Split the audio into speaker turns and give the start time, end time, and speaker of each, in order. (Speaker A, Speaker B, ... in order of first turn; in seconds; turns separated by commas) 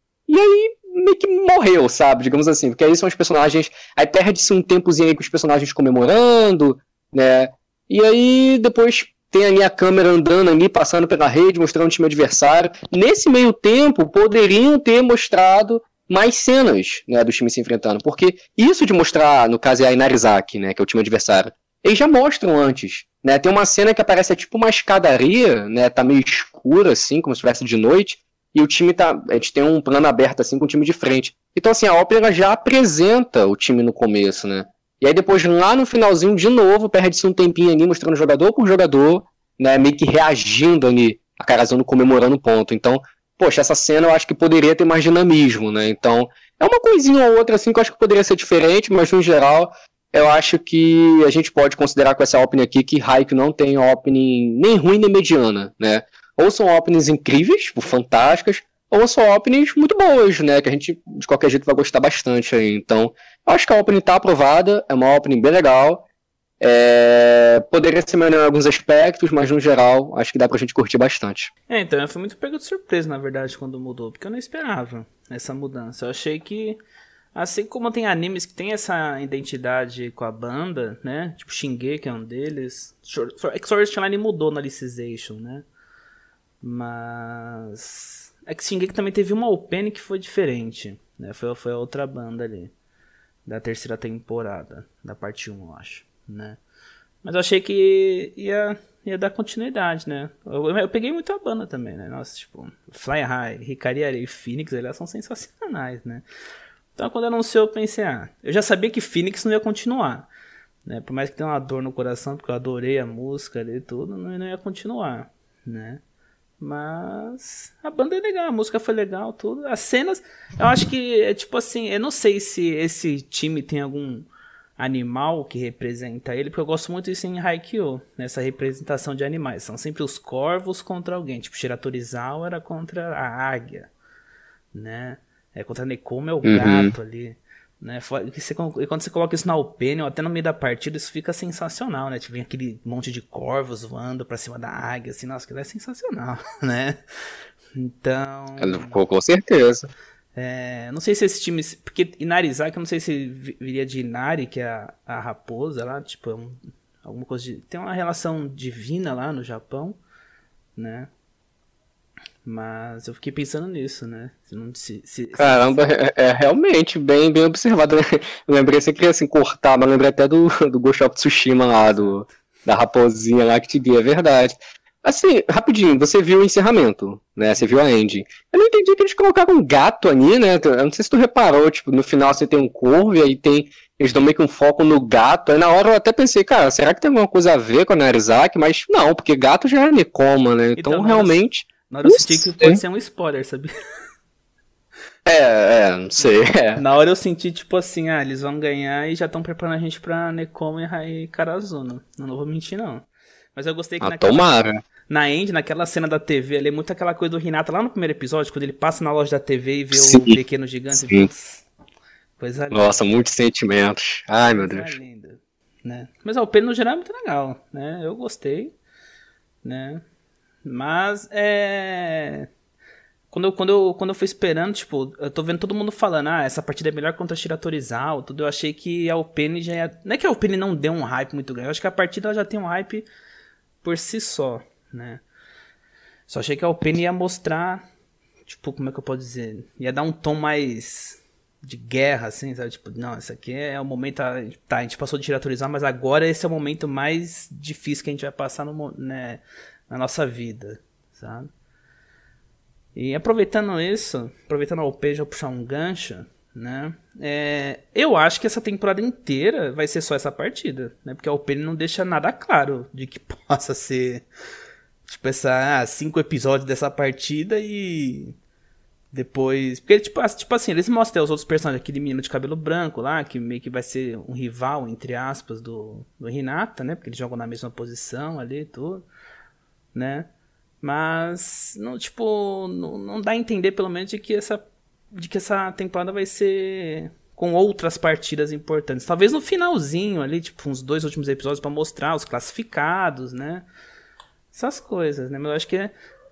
Speaker A: 0.3-66.0, Speaker A: 66.6-71.5, Speaker B: 71.7-76.8, Speaker B: 77.3-85.7, Speaker B: 86.6-92.7, Speaker B: 93.5-96.6, Speaker B: 97.2-106.2, Speaker B: 107.0-110.3, Speaker B: 110.9-116.0, Speaker B: 116.6-133.9, Speaker B: 134.7-147.0, Speaker A: 136.4-136.9, Speaker B: 147.8-149.0, Speaker A: 148.6-149.9, Speaker B: 150.3-160.0, Speaker B: 160.8-161.1, Speaker B: 162.4-165.8, Speaker A: 165.4-192.8, Speaker B: 171.8-172.2, Speaker B: 190.8-193.7, Speaker A: 195.3-196.8, Speaker B: 196.8-211.7, Speaker A: 204.0-204.8, Speaker A: 209.9-210.4, Speaker A: 210.9-211.3, Speaker B: 212.4-213.0, Speaker A: 212.7-215.0, Speaker B: 214.4-218.7, Speaker B: 219.6-220.0, Speaker B: 220.7-222.5, Speaker B: 223.3-233.1, Speaker B: 233.8-235.2, Speaker B: 236.3-237.8, Speaker B: 238.5-251.5, Speaker B: 252.9-264.2, Speaker B: 265.1-268.4, Speaker B: 269.1-279.1, Speaker B: 279.9-280.3, Speaker B: 280.8-293.7, Speaker B: 294.5-295.9